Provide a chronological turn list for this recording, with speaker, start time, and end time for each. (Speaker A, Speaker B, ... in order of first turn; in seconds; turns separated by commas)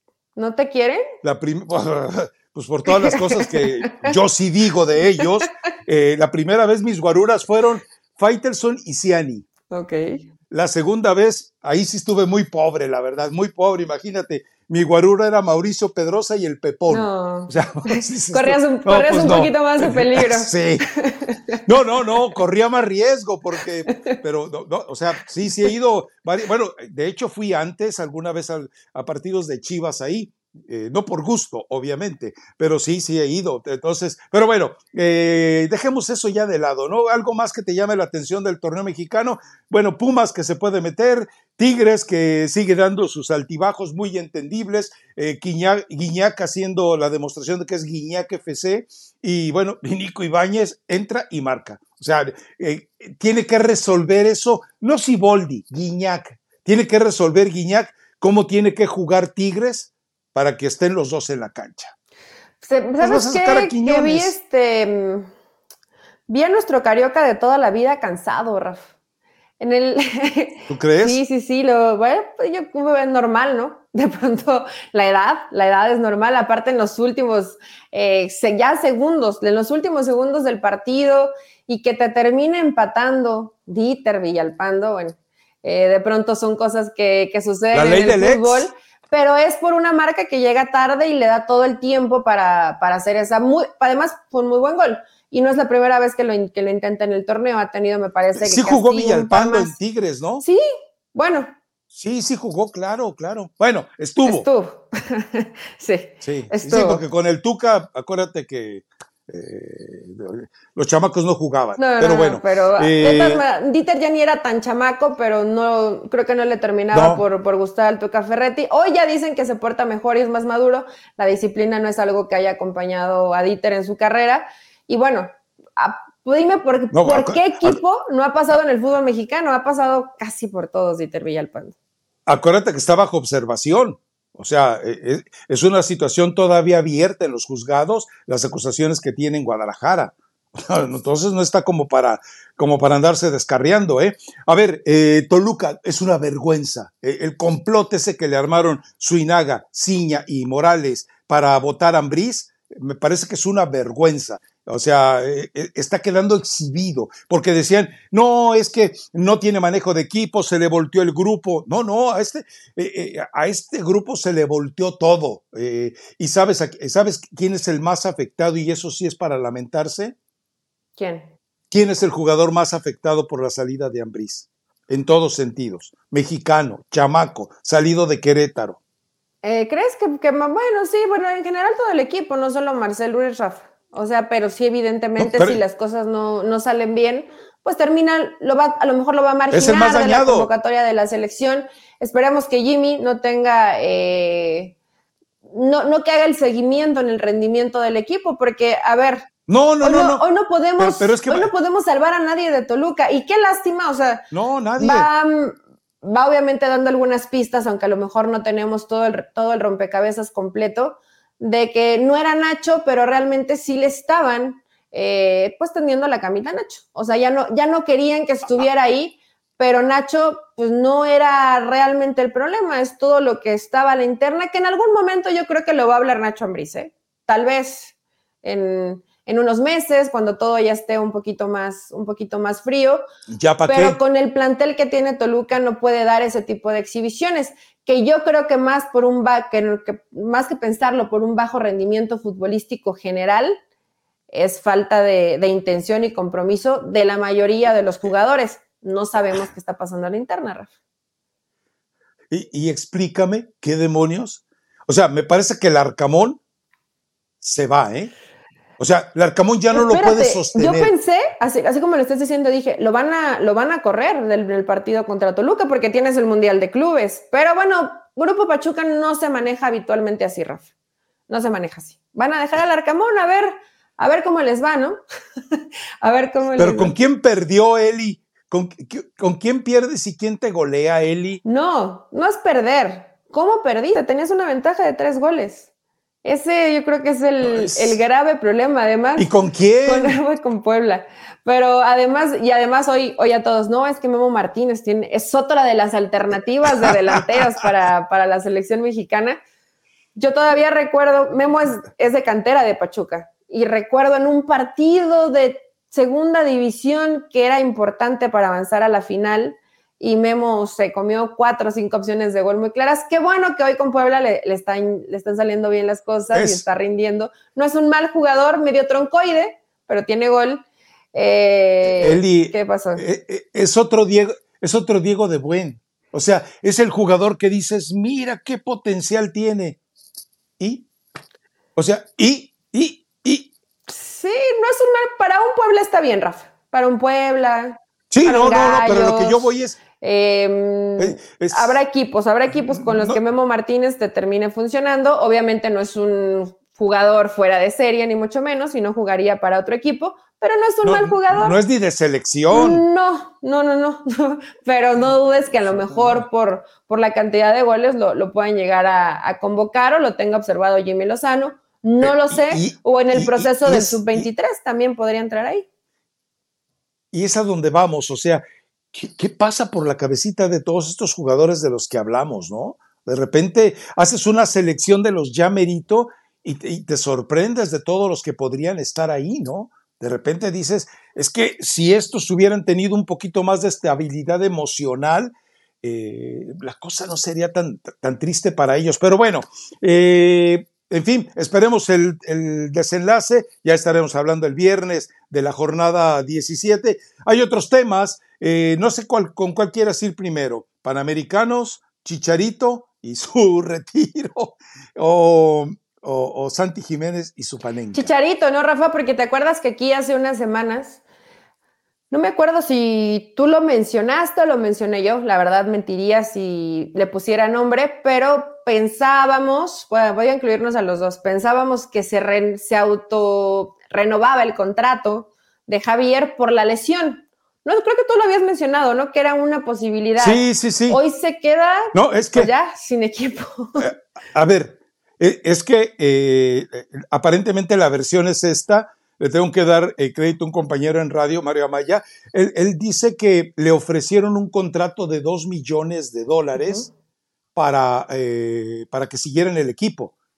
Speaker A: 0.3-1.1, Speaker B: 1.2-9.4, Speaker A: 2.9-4.1, Speaker A: 5.2-5.4, Speaker A: 9.7-10.3, Speaker B: 10.5-20.9, Speaker A: 16.9-21.6, Speaker B: 21.6-61.9, Speaker A: 62.6-65.3, Speaker B: 63.0-64.3, Speaker A: 66.3-68.9, Speaker A: 69.6-99.8, Speaker B: 70.7-71.2, Speaker B: 87.7-88.7, Speaker B: 98.3-100.4, Speaker A: 100.4-101.5, Speaker B: 101.9-104.5, Speaker A: 104.2-107.0, Speaker B: 106.2-113.4, Speaker A: 111.8-131.7, Speaker B: 116.9-117.2, Speaker B: 126.9-127.8, Speaker B: 132.3-170.1, Speaker A: 171.0-171.3, Speaker B: 171.7-178.8, Speaker A: 179.4-194.8, Speaker B: 185.2-185.6, Speaker B: 189.5-190.5, Speaker A: 195.4-199.3, Speaker B: 199.5-200.2, Speaker A: 199.8-233.0, Speaker B: 200.8-201.5, Speaker B: 204.3-205.1, Speaker B: 233.3-234.0, Speaker A: 233.7-243.6, Speaker A: 244.3-250.7, Speaker B: 252.3-256.4, Speaker B: 257.4-258.1, Speaker B: 258.8-260.9, Speaker A: 259.7-270.7, Speaker A: 271.3-275.0, Speaker A: 275.5-276.9, Speaker B: 276.6-281.4, Speaker A: 281.4-285.7, Speaker A: 286.2-289.3, Speaker B: 287.4-288.0, Speaker B: 289.2-290.2, Speaker A: 289.9-299.4, Speaker B: 296.8-297.4, Speaker A: 300.1-323.0, Speaker B: 316.3-316.6, Speaker B: 321.9-329.8, Speaker B: 330.6-330.9, Speaker B: 331.8-333.5, Speaker A: 333.9-339.4, Speaker B: 338.1-339.8, Speaker A: 339.9-351.6, Speaker B: 341.0-341.8, Speaker B: 342.7-343.2, Speaker B: 350.8-352.8, Speaker A: 352.5-365.7, Speaker B: 355.6-356.2, Speaker B: 362.0-364.3, Speaker B: 367.1-408.1, Speaker A: 407.9-411.0, Speaker A: 412.1-433.9, Speaker B: 430.2-431.0, Speaker B: 431.9-432.5, Speaker B: 433.8-446.9, Speaker A: 446.6-446.9, Speaker B: 447.5-450.1